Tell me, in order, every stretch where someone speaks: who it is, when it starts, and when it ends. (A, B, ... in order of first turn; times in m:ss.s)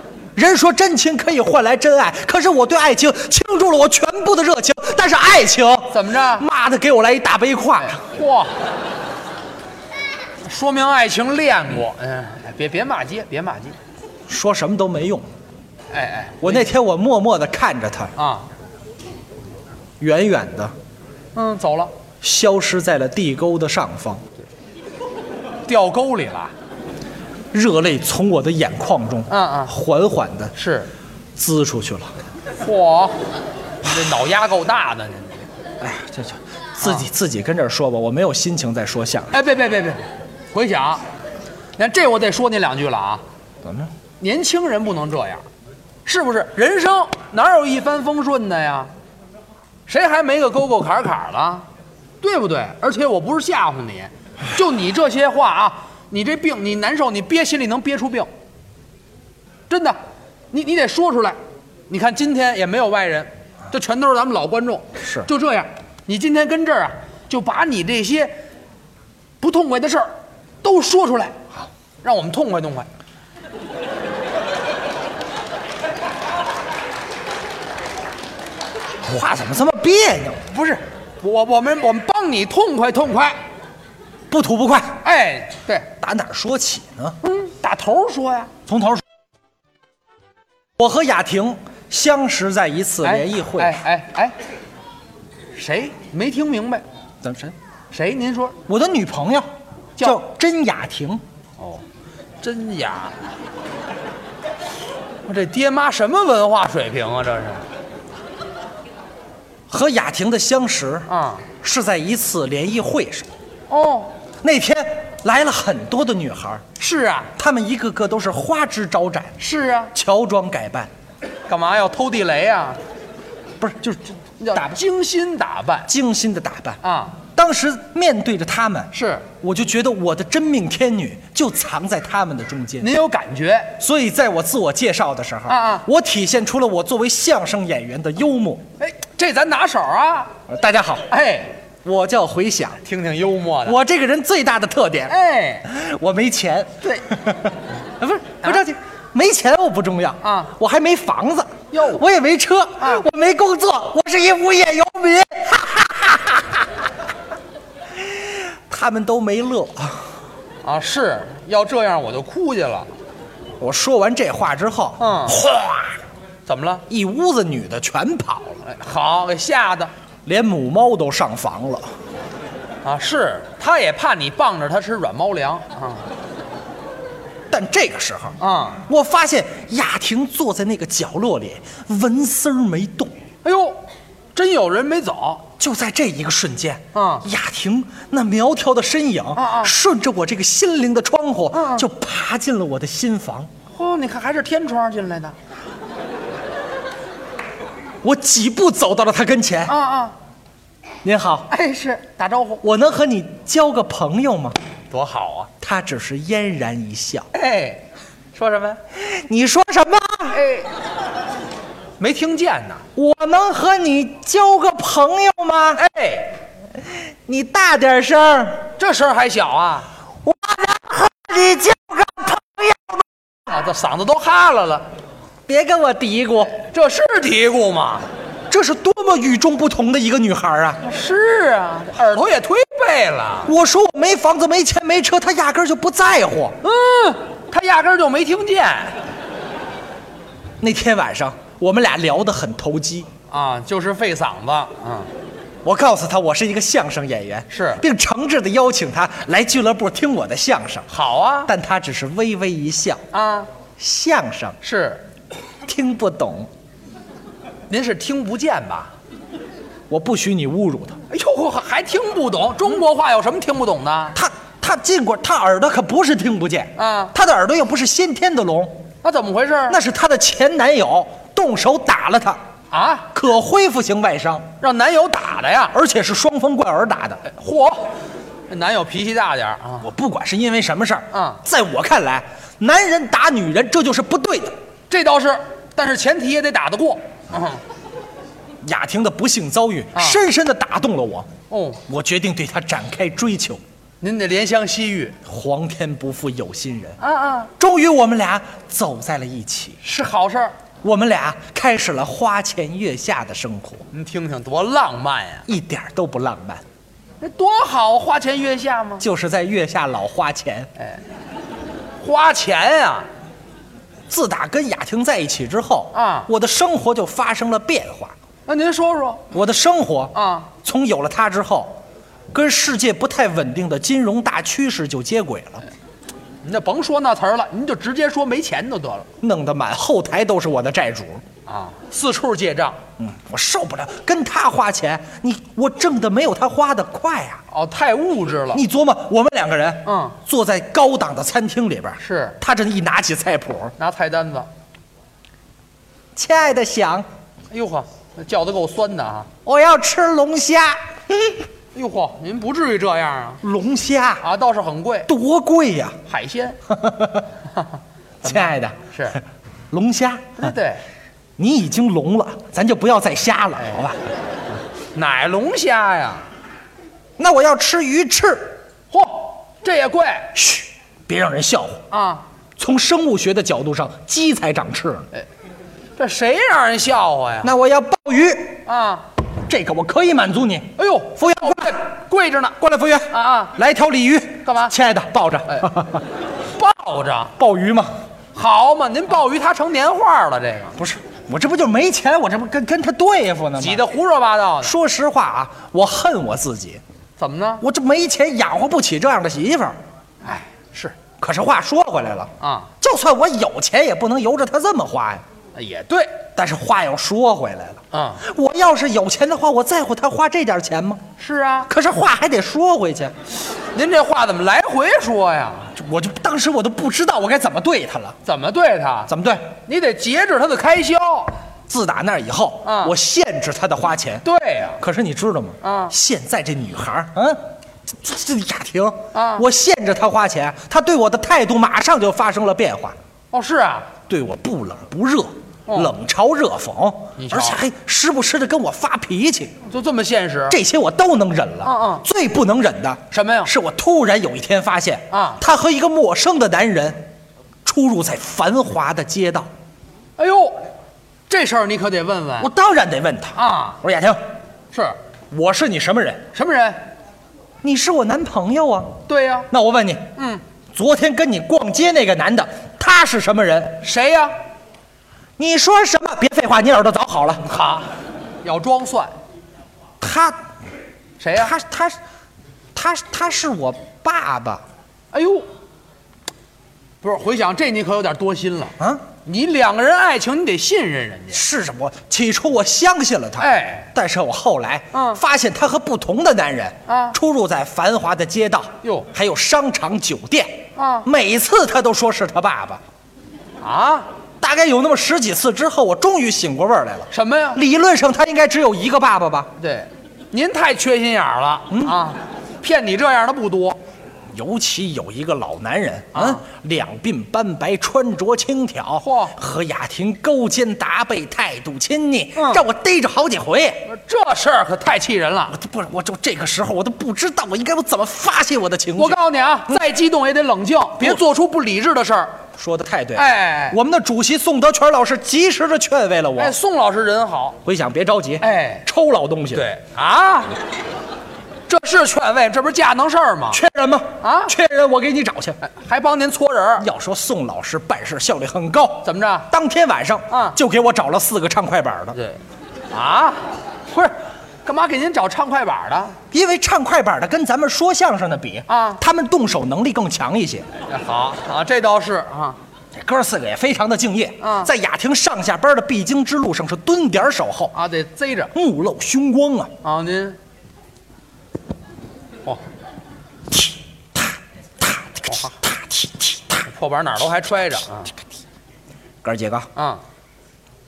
0:00.3-0:08.0 A
0:05.9-0:06.4 B
0:07.8-0:08.5 B
0:10.4-0:13.8 B
0:14.3-0:15.3 A
0:15.9-0:16.7 B
0:16.4-0:18.1 A
0:18.2-0:18.5 B
0:20.0-0:20.7 A
0:21.3-0:21.9 B
0:22.2-0:24.2 A
0:25.7-0:26.5 B
0:27.5-0:30.5 A
0:29.3-0:29.7 B
0:30.5-0:30.9 B
0:31.4-0:32.1 A
0:32.6-0:33.2 B
0:33.8-0:35.5 B
0:35.8-0:39.3 A
0:39.3-0:41.0 B
0:41.8-0:43.2 B
0:43.6-0:43.9 A
0:44.2-0:45.4 B
0:46.0-0:48.9 B
0:49.9-0:51.6 B
0:52.2-0:58.3 B
0:59.7-1:00.0 B
1:00.5-1:01.4 B
1:01.9-1:08.4 B
1:05.0-1:05.3 A
1:09.4-1:11.4 B
1:12.0-1:12.9 B
1:19.0-1:20.4 A
1:20.5-1:23.4 B
1:24.3-1:25.0 A
1:25.0-1:25.9 B
1:26.0-1:27.2 A
1:27.2-1:28.5 B
1:28.7-1:29.0 A
1:30.8-1:33.8 A
1:33.0-1:34.4 B
1:35.5-1:36.8 B
1:37.2-1:37.5 A
1:37.9-1:38.6 B
1:38.6-1:39.5 A
1:40.0-1:41.2 A
1:41.6-1:41.8 B
1:42.4-1:43.2 B
1:45.2-1:47.6 B
1:49.7-1:51.1 A
1:51.1-1:51.4 B
1:51.6-1:53.3 A
1:53.7-1:54.1 B
1:54.4-1:56.6 A
1:56.8-1:57.3 B
1:57.4-1:59.4 A
1:59.4-1:59.9 B
1:59.9-2:00.9 A
2:01.5-2:02.8 B
2:03.6-2:04.8 A
2:04.4-2:05.9 B
2:05.9-2:06.8 A
2:06.8-2:07.2 B
2:07.3-2:12.9 A
2:08.9-2:09.2 B
2:12.8-2:13.7 B
2:13.8-2:18.6 A
2:15.5-2:15.8 B
2:18.8-2:20.3 B
2:20.5-2:21.1 A
2:21.1-2:21.5 B
2:21.8-2:22.8 A
2:22.8-2:23.8 B
2:23.6-2:36.7 A
2:25.1-2:25.7 B
2:30.2-2:30.5 B
2:31.7-2:32.0 B
2:32.8-2:33.0 B
2:38.0-2:40.1 A
2:40.6-2:42.9 B
2:43.6-2:46.0 A
2:45.0-2:45.4 B
2:46.4-2:46.8 B
2:46.9-2:48.6 A
2:48.6-2:49.9 B
2:50.2-2:51.9 A
2:52.8-2:56.0 B
2:57.5-2:58.3 A
2:58.4-2:58.8 B
2:58.9-3:03.1 A
3:03.4-3:03.8 B
3:04.3-3:05.5 B
3:05.6-3:13.5 A
3:06.9-3:07.2 B
3:09.4-3:09.7 B
3:11.5-3:11.9 B
3:13.7-3:15.4 B
3:18.0-3:19.8 A
3:19.7-3:20.1 B
3:21.0-3:21.5 A
3:21.5-3:22.6 B
3:22.6-3:24.6 A
3:24.9-3:25.5 B
3:25.6-3:27.3 A
3:27.3-3:28.8 B
3:29.0-3:30.4 A
3:30.3-3:30.7 B
3:32.0-3:32.8 B
3:33.0-3:35.8 A
3:35.7-3:36.3 B
3:37.2-3:38.7 A
3:38.8-3:39.9 B
3:40.2-3:43.0 A
3:43.5-3:44.9 B
3:45.5-3:46.6 A
3:46.6-3:48.1 B
3:48.5-3:50.8 A
3:50.8-3:53.5 B
3:53.4-3:56.6 A
3:56.6-3:59.0 B
4:00.6-4:03.1 A
4:03.3-4:05.1 B
4:05.6-4:10.9 A
4:07.5-4:07.8 B
4:10.9-4:11.5 B
4:11.4-4:13.0 A
4:13.1-4:13.5 B
4:13.8-4:14.6 A
4:14.6-4:15.0 B
4:15.6-4:16.5 A
4:17.7-4:18.9 B
4:19.9-4:21.0 A
4:21.1-4:24.2 B
4:24.1-4:28.8 A
4:26.8-4:27.1 B
4:29.0-4:29.8 B
4:29.7-4:32.4 A
4:32.7-4:33.1 B
4:33.1-4:34.5 A
4:34.6-4:35.7 B
4:35.7-4:37.2 A
4:37.2-4:37.9 B
4:38.5-4:39.9 B
4:39.8-4:44.6 A
4:41.1-4:41.4 B
4:44.9-4:47.6 B
4:48.6-4:51.3 A
4:49.9-4:50.2 B
4:51.5-4:51.8 B
4:51.8-4:53.6 A
4:54.0-4:55.2 B
4:55.2-4:57.0 A
4:57.0-4:57.5 B
4:57.6-4:59.8 A
4:59.8-5:00.5 B
5:00.8-5:03.8 A
5:03.9-5:05.4 B
5:05.5-5:06.6 A
5:07.2-5:09.0 B
5:09.0-5:10.7 A
5:12.0-5:13.1 B
5:14.1-5:18.1 A
5:15.9-5:16.3 B
5:18.5-5:19.2 B
5:19.3-5:21.8 A
5:20.1-5:20.5 B
5:22.3-5:25.6 A
5:26.4-5:29.1 B
5:29.2-5:31.2 A
5:31.5-5:32.8 B
5:33.0-5:37.4 A
5:37.5-5:38.6 B
5:38.5-5:43.7 A
5:39.8-5:40.2 B
5:42.0-5:42.4 B
5:43.8-5:44.5 B
5:46.1-5:47.1 A
5:47.5-5:49.3 B
5:49.4-5:51.4 A
5:51.7-5:53.4 B
5:53.4-5:54.2 A
5:54.2-5:55.1 B
5:55.1-5:56.0 A
5:56.1-5:56.6 B
5:56.7-5:57.2 A
5:58.2-5:59.2 A
5:58.2-5:59.2 B
5:59.7-6:00.5 A
6:00.4-6:00.8 B
6:01.4-6:04.0 A
6:03.6-6:03.8 B
6:04.9-6:06.2 B
6:07.2-6:08.6 A
6:08.9-6:10.3 B
6:10.3-6:11.8 A
6:11.9-6:12.2 B
6:12.6-6:15.1 A
6:16.0-6:17.5 B
6:17.4-6:18.6 A
6:18.6-6:19.0 B
6:19.4-6:21.8 A
6:20.8-6:22.6 B
6:22.6-6:26.0 A
6:23.1-6:23.5 B
6:24.4-6:24.7 B
6:26.6-6:27.3 B
6:27.4-6:27.9 A
6:28.3-6:30.7 B
6:30.8-6:33.9 A
6:33.6-6:34.8 B
6:34.6-6:36.8 A
6:37.2-6:37.6 B
6:37.6-6:39.8 A
6:40.2-6:40.9 B
6:41.2-6:45.2 A
6:42.4-6:42.7 B
6:45.5-6:46.2 B
6:46.3-6:51.0 A
6:47.9-6:48.2 B
6:51.2-6:51.7 B
6:51.7-6:53.1 A
6:53.7-6:55.7 B
6:55.7-6:58.2 A
6:58.2-6:59.1 B
6:59.1-6:59.5 A
6:59.6-7:01.3 B
7:01.7-7:04.2 A
7:02.6-7:02.9 B
7:04.2-7:04.8 B
7:04.8-7:07.4 A
7:05.6-7:05.9 B
7:08.0-7:13.0 A
7:09.1-7:09.4 B
7:13.3-7:13.9 B
7:14.1-7:19.5 A
7:15.7-7:15.9 B
7:17.2-7:17.6 B
7:19.6-7:20.6 B
7:20.5-7:27.1 A
7:21.6-7:22.0 B
7:23.1-7:23.5 B
7:25.1-7:25.4 B
7:27.6-7:29.5 A
7:30.2-7:30.6 B
7:31.3-7:32.5 B
7:32.4-7:34.2 A
7:33.3-7:33.8 B
7:34.7-7:35.0 B
7:35.3-7:36.2 A
7:36.3-7:36.8 B
7:37.6-7:39.0 A
7:39.1-7:39.5 B
7:39.5-7:40.1 A
7:40.2-7:40.4 B
7:40.7-7:43.8 A
7:43.8-7:44.4 B
7:45.4-7:47.4 A
7:47.4-7:47.9 B
7:48.4-7:49.2 B
7:50.0-7:50.4 A
7:51.2-7:51.5 B
7:51.3-7:52.0 A
7:52.7-7:54.6 A
7:55.1-7:55.5 B
7:57.0-8:01.4 B
7:58.8-7:59.0 A
8:01.3-8:12.8 A
8:03.4-8:03.9 B
8:04.9-8:05.2 B
8:06.9-8:07.2 B
8:08.8-8:09.1 B
8:10.8-8:11.0 B
8:13.6-8:14.1 B
8:14.4-8:19.5 A
8:17.1-8:17.6 B
8:19.6-8:23.8 B
8:21.7-8:22.0 A
8:24.3-8:33.8 A
8:26.1-8:26.4 B
8:29.0-8:29.3 B
8:32.4-8:32.6 B
8:33.8-8:35.5 B
8:35.5-8:39.9 A
8:39.0-8:42.3 B
8:42.6-8:46.6 A
8:43.1-8:43.8 B
8:46.4-8:47.6 B
8:47.6-8:49.6 A
8:48.4-8:48.8 B
8:49.5-8:50.5 B
8:51.7-8:53.6 B
8:53.5-8:55.6 A
8:54.2-8:54.5 B
8:55.6-8:56.8 B
8:56.8-9:02.2 A
8:59.0-8:59.5 B
9:00.3-9:00.6 B
9:02.9-9:04.1 B
9:04.6-9:06.2 B
9:06.3-9:10.6 A
9:08.7-9:09.0 B
9:10.9-9:12.6 B
9:12.9-9:17.7 A
9:14.4-9:14.7 B
9:17.7-9:18.5 B
9:18.5-9:19.7 A
9:19.8-9:20.4 B
9:23.5-9:26.6 A
9:25.3-9:25.5 B
9:26.6-9:28.1 B
9:29.2-9:29.7 A
9:29.8-9:30.0 B